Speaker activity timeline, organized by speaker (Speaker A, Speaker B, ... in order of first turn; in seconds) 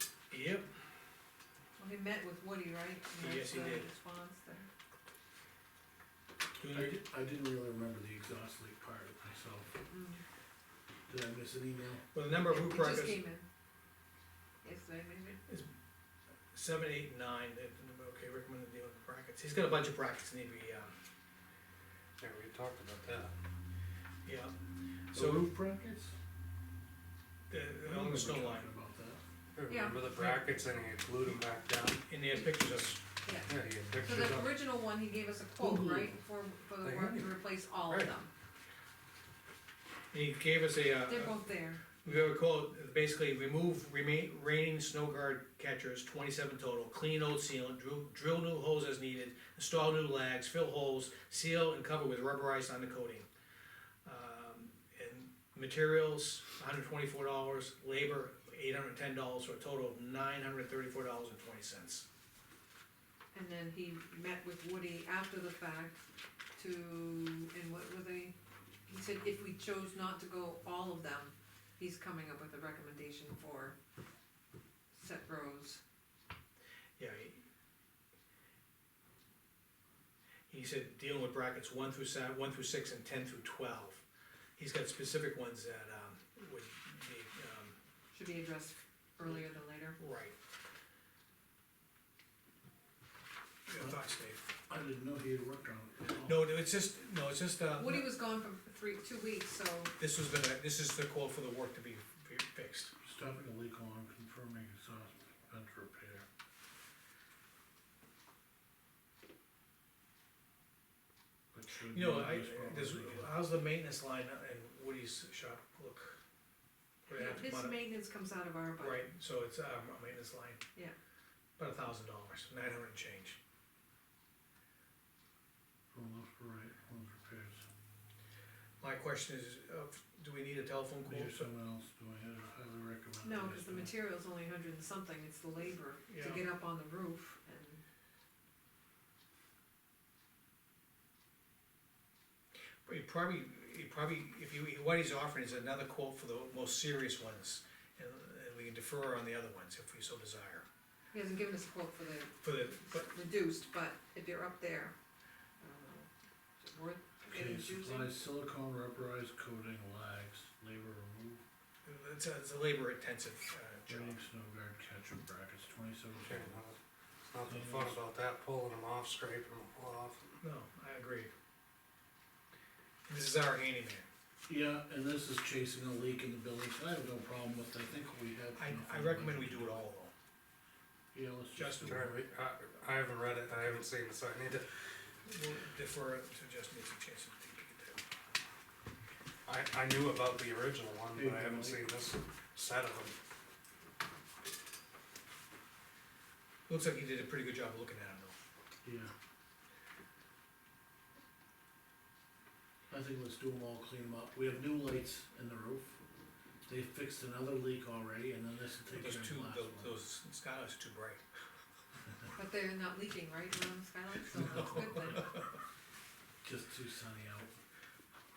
Speaker A: 0.3-0.7, 3.2-3.9, 6.5-7.0, 12.1-13.2, 16.5-20.9, 24.2-24.5, 25.1-25.5, 27.5-28.7, 30.1-30.4, 32.1-33.0, 40.1-41.4, 42.0-53.3, 54.0-62.0, 77.0-77.4, 80.5-84.0, 84.6-87.8, 90.0-90.3, 93.7-94.5, 96.2-98.1, 100.0-102.9, 111.9-116.2, 117.0-117.8, 118.8-120.6, 121.6-123.4, 128.8-131.5, 136.1-136.4, 142.8-150.7, 152.4-153.1, 161.8-164.2, 170.4-171.3, 173.1-174.1, 178.5-180.1, 181.5-182.1, 183.5-183.8, 185.2-188.0, 196.7-198.3, 208.9-211.2, 214.4-215.5
Speaker B: 1.8-4.7, 9.9-10.2, 12.4-13.4, 14.6-15.4, 29.7-30.0, 33.2-33.5, 34.0-38.3, 41.0-41.9, 63.3-66.0, 66.5-73.8, 74.9-75.8, 88.1-90.0, 97.8-99.9, 117.1-119.0, 133.2-137.8, 151.1-154.9, 155.6-158.1, 212.3-215.3
Speaker C: 6.7-9.7, 11.1-12.0, 25.1-26.1, 27.8-29.2, 35.6-36.2, 94.7-96.4, 103.0-106.2, 111.5-113.4, 125.9-127.6, 131.0-133.9, 157.3-161.4, 163.9-166.6, 167.4-168.0, 174.5-179.9, 181.1-182.1, 191.1-191.9, 198.8-199.1, 202.9-206.0, 206.7-210.0, 216.4-217.5
Speaker D: 22.2-23.3, 29.5-32.0, 33.5-34.6, 36.8-38.1, 166.2-170.3, 181.8-184.6, 189.4-193.2